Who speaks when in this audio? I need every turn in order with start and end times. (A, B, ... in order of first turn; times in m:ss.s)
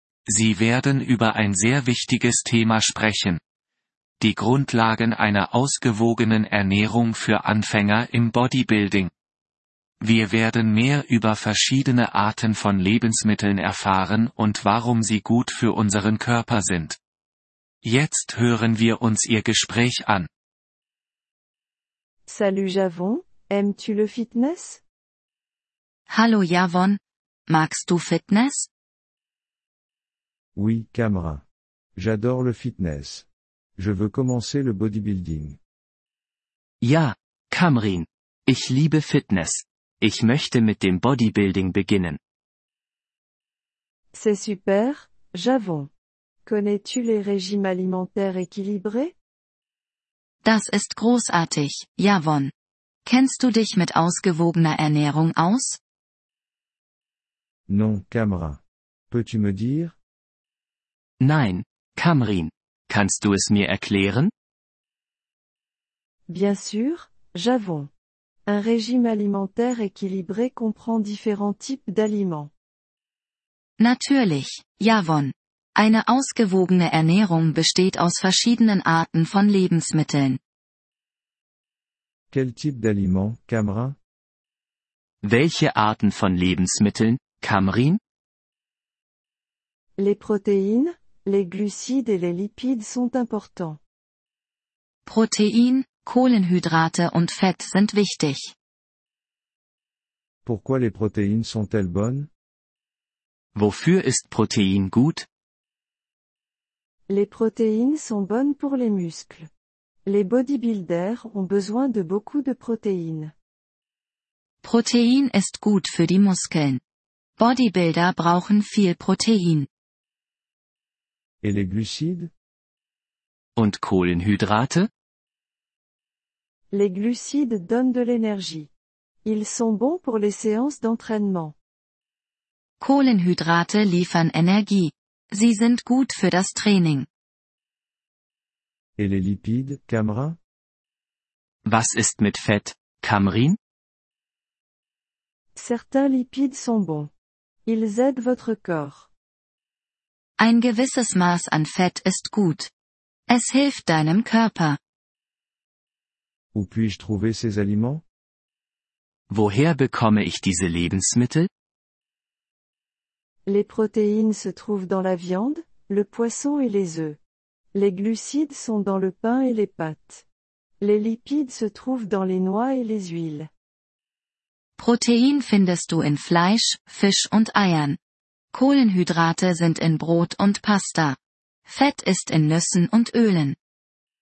0:00.3-0:03.4 A
0:04.2-0:09.1 A
0:10.0-0:17.0 A
0:17.8-0:20.3 A
0:22.3-0:24.8 B
0:26.1-0:28.7 C
0:30.6-0:31.4 D
0:32.0-0:35.6 D
0:36.8-0:42.2 E
0:44.1-0:45.9 B
0:46.5-0:49.2 B
0:50.4-0:52.5 C
0:53.0-0:55.8 C
0:57.7-1:00.0 D
1:01.2-1:04.3 E
1:06.3-1:07.9 B
1:08.5-1:12.5 B
1:13.8-1:20.4 C
1:22.3-1:24.0 D
1:25.2-1:28.0 E
1:30.0-1:33.8 B
1:35.0-1:38.5 C
1:40.4-1:42.3 D
1:43.6-1:45.3 E
1:47.1-1:49.5 B
1:50.1-1:53.3 B
1:54.6-1:56.8 C
1:57.4-1:59.7 C
2:01.4-2:02.3 D
2:03.6-2:04.9 E
2:06.7-2:08.7 B
2:09.2-2:11.6 B
2:12.8-2:17.1 C
2:19.0-2:20.4 D
2:21.7-2:23.6 E
2:25.6-2:27.1 B
2:27.7-2:29.1 B
2:30.4-2:32.7 C
2:33.3-2:34.8 C
2:36.5-2:38.0 D
2:39.3-2:41.5 E
2:43.5-2:47.2 B
2:47.7-2:50.2 B
2:50.8-2:53.5 B
2:54.8-2:58.0 C
2:58.5-3:03.6 C